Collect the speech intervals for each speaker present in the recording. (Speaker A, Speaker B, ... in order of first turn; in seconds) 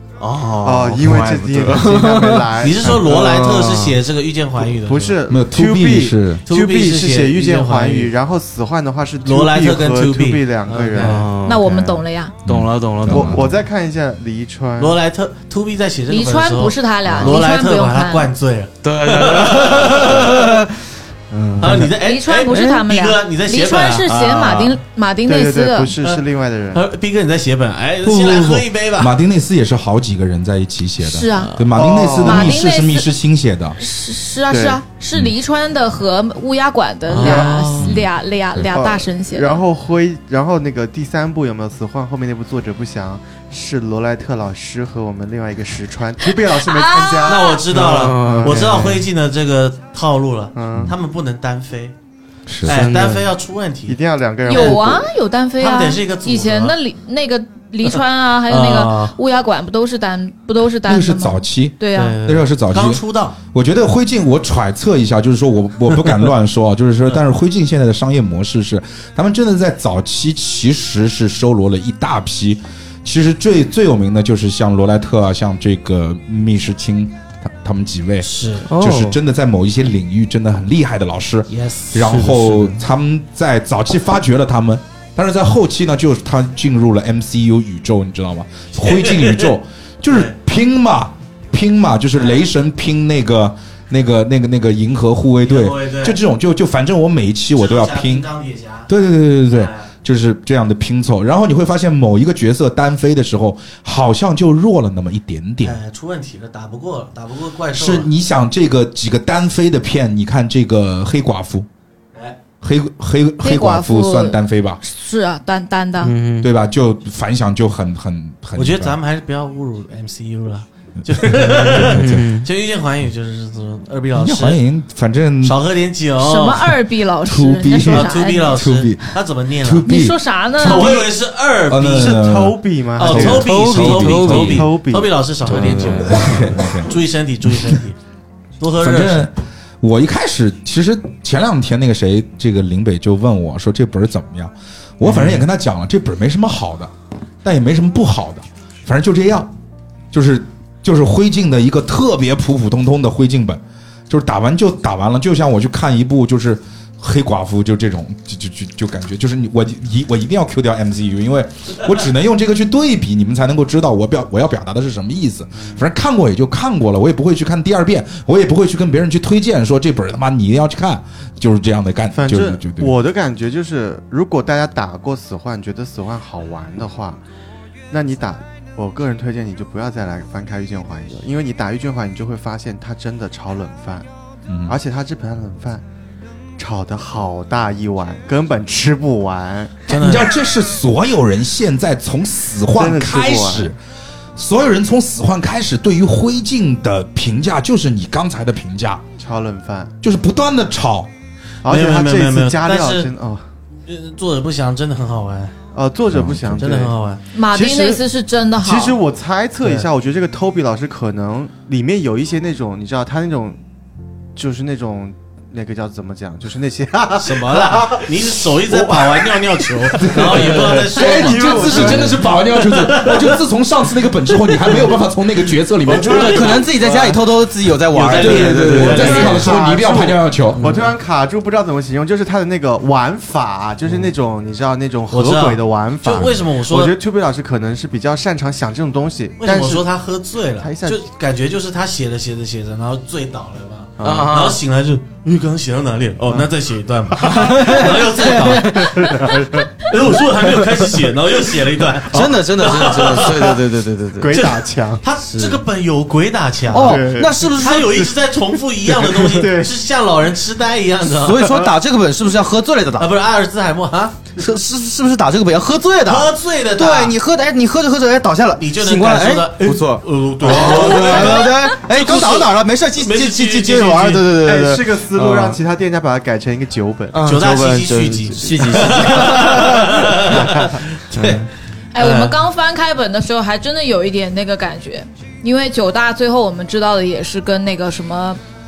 Speaker A: 0.2-2.5, 3.2-4.0, 11.0-11.6, 12.5-13.4, 18.8-20.7, 21.3-21.9, 22.4-22.8, 47.9-48.6, 52.7-53.2, 78.7-79.2, 82.2-82.8, 116.0-116.5, 121.8-122.5, 133.3-134.6, 135.4-136.6, 226.0-229.3, 244.0-244.6, 247.3-249.2, 252.1-254.4, 255.3-255.6, 256.7-257.9, 261.2-263.1, 264.4-275.6, 277.1-280.2, 281.1-281.4
Speaker B: 0.6-3.6, 4.7-12.1, 13.1-15.0, 25.2-26.8, 31.7-32.6, 34.5-34.8, 37.2-37.6, 38.6-49.1, 50.5-50.9, 53.9-55.1, 132.0-135.6, 172.1-177.2, 177.9-184.1, 184.7-185.8, 186.6-189.9, 192.8-193.7, 199.2-200.0, 201.6-203.5, 205.7-207.0, 207.5-208.0, 208.6-213.6, 214.3-222.2, 228.2-239.9, 240.6-241.0, 244.0-244.5, 247.1-249.8, 252.1-252.4, 253.2-253.6, 254.2-255.0, 256.7-259.7, 270.5-271.4, 274.4-277.2, 278.4-281.4
Speaker C: 2.6-5.2, 6.5-8.1, 9.2-11.2, 14.8-20.7, 21.6-24.8, 26.0-29.1, 37.1-37.9, 47.2-51.9, 52.6-54.8, 55.6-56.8, 58.5-59.2, 62.0-63.4, 78.2-78.7, 81.5-82.4, 88.8-89.6, 90.1-90.3, 95.4-96.2, 97.5-98.9, 99.5-99.9, 105.6-108.1, 118.5-124.6, 125.4-126.8, 127.8-129.9, 130.6-132.2, 133.0-138.0, 138.6-139.3, 145.0-145.4, 189.9-190.3, 201.6-203.1, 203.8-205.6, 206.5-207.2, 209.6-209.9, 217.2-223.4, 224.5-224.8, 225.8-227.2, 227.9-229.6, 230.6-230.9, 235.1-237.0, 239.4-249.2, 249.8-253.6, 254.3-261.5, 263.0-264.2, 266.1-267.2, 268.6-274.3, 277.2-282.4
Speaker D: 5.3-6.4, 12.5-13.4, 28.0-33.8, 37.8-38.1, 52.5-52.9, 60.8-98.3, 98.9-105.8, 107.7-111.7, 112.6-114.8, 116.4-119.0, 121.1-122.3, 124.1-125.6, 127.3-131.0, 131.7-134.7, 135.5-137.8, 138.8-146.9, 147.4-149.5, 150.1-173.0, 184.5-184.8, 189.9-193.8, 194.3-199.0, 200.0-201.1, 206.1-206.6, 220.0-226.6, 228.2-230.6
Speaker E: 11.5-12.3, 16.1-18.3, 21.7-25.9, 31.0-31.7, 32.2-33.1, 33.8-39.6, 46.2-47.6, 54.5-62.2, 113.4-116.1, 126.2-128.6, 129.8-131.0, 207.3-209.0, 281.9-288.4